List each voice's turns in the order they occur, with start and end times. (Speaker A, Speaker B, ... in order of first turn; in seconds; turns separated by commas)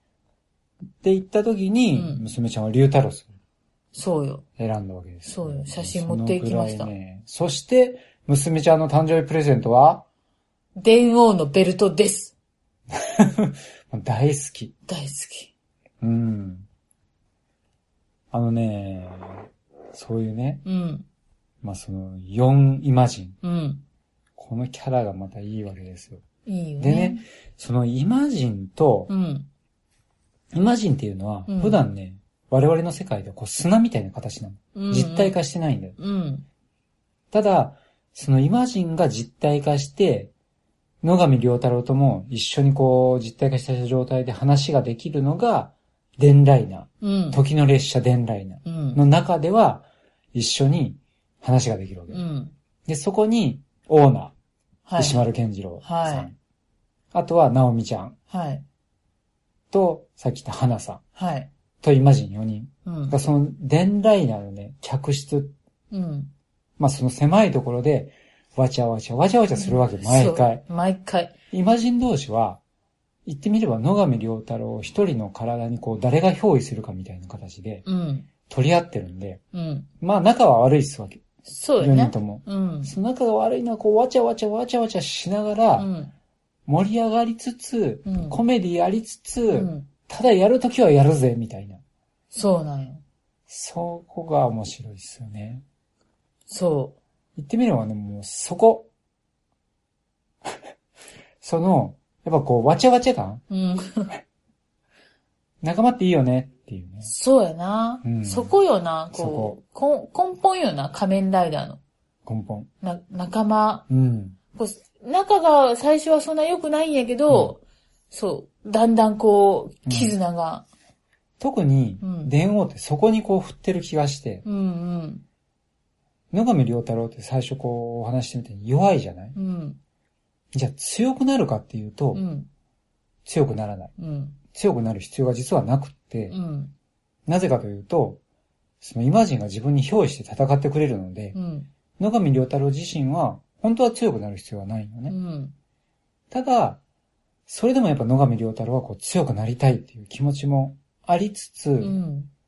Speaker A: 1.0-3.3, Speaker B: 1.9-2.2, Speaker B: 3.9-4.4, Speaker A: 4.6-10.0, Speaker B: 5.2-6.9, Speaker B: 10.8-12.3, Speaker A: 12.9-14.7, Speaker B: 14.9-15.5, Speaker A: 16.0-16.7, Speaker A: 18.3-20.6, Speaker B: 20.6-21.1, Speaker A: 21.6-23.4, Speaker B: 23.4-23.8, Speaker A: 24.4-26.2, Speaker B: 26.4-27.2, Speaker A: 26.8-29.1, Speaker B: 29.1-29.5, Speaker A: 30.5-36.0, Speaker B: 31.5-31.8, Speaker B: 34.7-35.4, Speaker B: 36.0-36.5, Speaker A: 37.3-40.3, Speaker A: 41.0-52.2, Speaker B: 47.0-47.4, Speaker B: 48.6-49.0, Speaker B: 52.1-52.5, Speaker A: 52.9-54.3, Speaker B: 54.9-55.2, Speaker A: 55.0-56.3, Speaker B: 55.8-56.3, Speaker A: 57.1-58.1, Speaker B: 58.3-58.6, Speaker A: 59.7-61.0, Speaker B: 61.1-61.5, Speaker A: 61.8-65.5, Speaker B: 62.9-63.2, Speaker B: 65.9-66.3, Speaker A: 66.8-70.6, Speaker B: 69.5-71.3, Speaker A: 71.5-72.6, Speaker A: 73.2-77.8, Speaker B: 77.8-78.3, Speaker A: 78.5-79.4, Speaker B: 79.5-79.9, Speaker A: 80.0-81.2, Speaker B: 81.5-82.9, Speaker A: 81.8-85.9, Speaker B: 85.8-86.1, Speaker A: 86.7-91.8, Speaker B: 88.0-88.4, Speaker B: 89.5-89.9, Speaker B: 92.3-93.0, Speaker A: 93.5-95.6, Speaker B: 96.5-97.0, Speaker A: 97.3-98.9, Speaker A: 101.4-103.4, Speaker B: 103.5-104.1, Speaker A: 105.6-107.1, Speaker B: 107.0-111.8, Speaker A: 108.0-108.6, Speaker A: 109.1-109.6, Speaker A: 112.2-112.7, Speaker B: 112.8-113.9, Speaker A: 113.9-114.4, Speaker B: 114.5-120.7, Speaker A: 117.3-117.5, Speaker A: 119.8-120.1, Speaker A: 121.4-124.4, Speaker B: 122.0-122.3, Speaker B: 124.4-125.2, Speaker A: 126.3-129.3, Speaker B: 129.3-129.8, Speaker A: 130.5-132.2, Speaker B: 132.1-132.5, Speaker A: 133.2-133.9, Speaker B: 134.0-134.4, Speaker A: 134.5-136.4, Speaker B: 136.3-136.7, Speaker A: 137.2-138.2, Speaker A: 138.8-141.3, Speaker B: 141.3-141.7, Speaker A: 142.0-145.2, Speaker B: 145.1-145.5, Speaker A: 146.3-146.8, Speaker A: 147.5-152.0, Speaker B: 151.8-152.3